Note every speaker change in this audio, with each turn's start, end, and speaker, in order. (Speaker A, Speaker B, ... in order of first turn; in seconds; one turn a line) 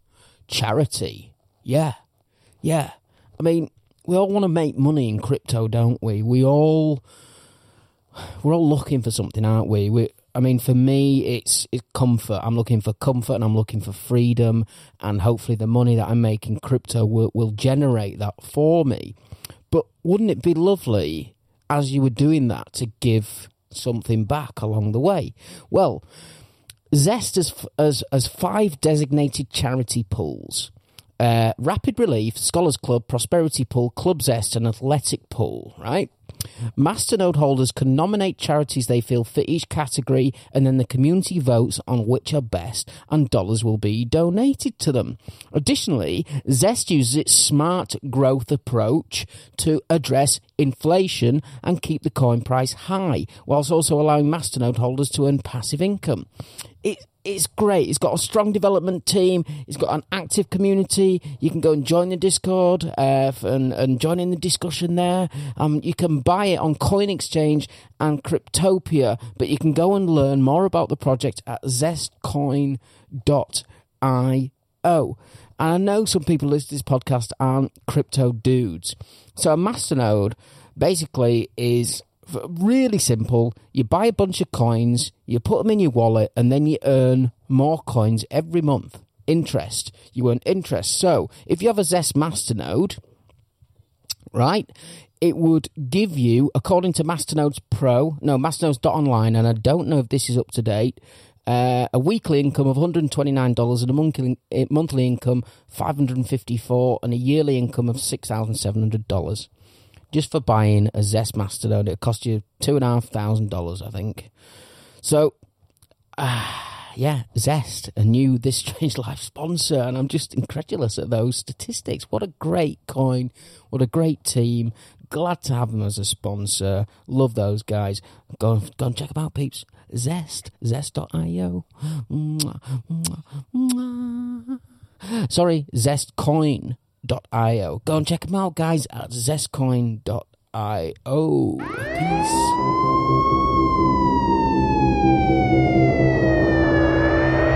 Speaker A: 0.5-2.0
Speaker A: 2.6-7.0
Speaker A: 8.2-19.1
Speaker A: 19.7-26.0
Speaker A: 26.9-36.1
Speaker A: 36.8-56.3
Speaker A: 56.8-93.0
Speaker A: 94.3-109.5
Speaker A: 110.1-114.3
Speaker A: 115.0-115.3
Speaker A: 116.2-142.6